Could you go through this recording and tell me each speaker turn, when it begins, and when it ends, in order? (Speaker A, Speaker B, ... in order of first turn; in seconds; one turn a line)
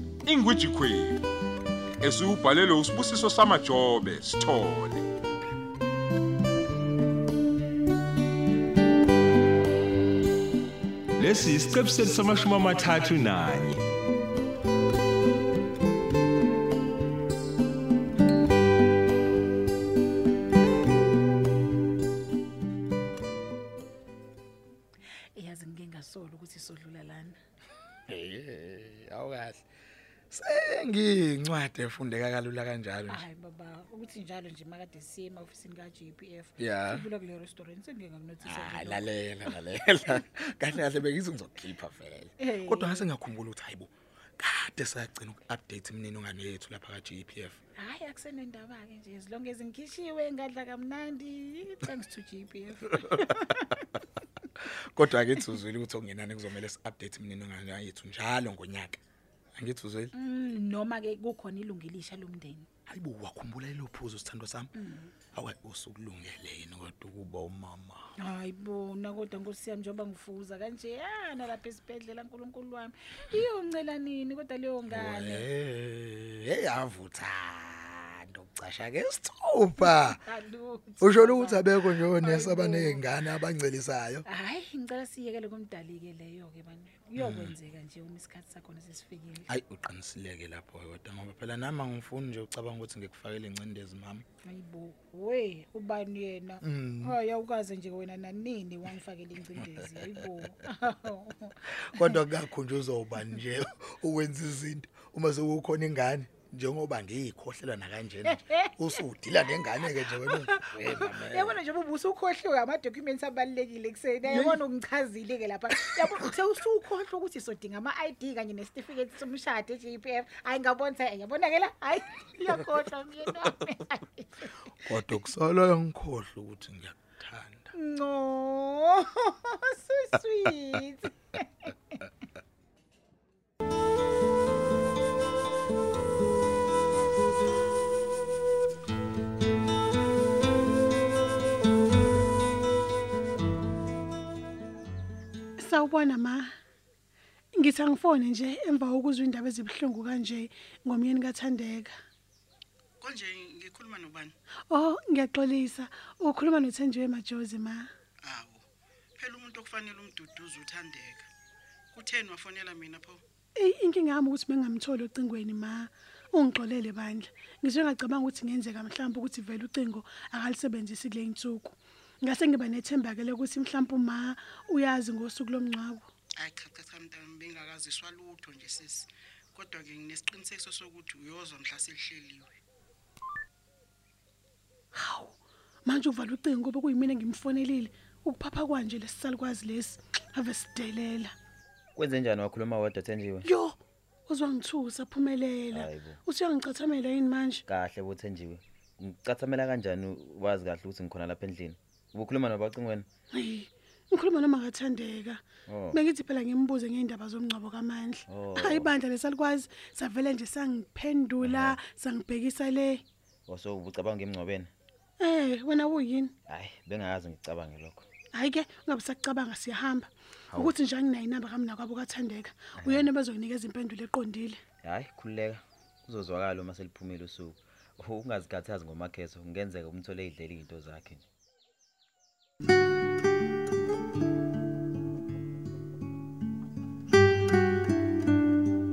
Speaker A: 0.3-1.2
Speaker A: 2.0-5.0
Speaker B: 11.2-13.8
Speaker C: 25.4-27.4
Speaker D: 28.1-29.6
Speaker D: 30.3-33.2
Speaker C: 33.1-39.1
Speaker D: 36.6-37.0
Speaker D: 38.4-43.9
Speaker C: 42.4-43.1
Speaker D: 44.4-47.6
Speaker C: 47.8-53.5
Speaker D: 54.7-59.0
Speaker D: 59.5-60.1
Speaker C: 60.1-62.6
Speaker D: 62.9-64.7
Speaker C: 64.8-65.1
Speaker D: 65.3-68.0
Speaker C: 68.2-75.5
Speaker D: 74.9-80.2
Speaker C: 79.8-83.1
Speaker D: 81.0-84.2
Speaker C: 84.2-89.5
Speaker D: 87.2-87.5
Speaker D: 89.5-94.2
Speaker C: 94.4-101.5
Speaker D: 96.7-97.2
Speaker D: 99.6-100.2
Speaker D: 101.8-111.6
Speaker C: 108.3-108.9
Speaker C: 109.8-124.5
Speaker D: 114.3-114.6
Speaker D: 124.8-127.7
Speaker C: 127.8-131.4
Speaker E: 145.6-146.5
Speaker E: 147.6-151.9
Speaker F: 153.0-154.3
Speaker E: 154.7-157.9
Speaker F: 158.2-158.7
Speaker F: 159.2-161.3
Speaker F: 161.9-163.2
Speaker E: 163.6-176.1
Speaker F: 176.4-182.5
Speaker E: 184.9-191.3
Speaker G: 191.9-193.5
Speaker E: 193.4-193.8
Speaker E: 194.3-197.7
Speaker G: 195.7-196.2
Speaker G: 197.7-203.1
Speaker E: 203.3-213.0
Speaker G: 205.7-206.0
Speaker G: 208.3-208.9
Speaker G: 211.4-211.8
Speaker G: 213.5-214.7
Speaker E: 215.2-216.3
Speaker G: 216.5-218.1
Speaker E: 218.3-224.6
Speaker G: 222.8-223.1
Speaker G: 224.8-231.2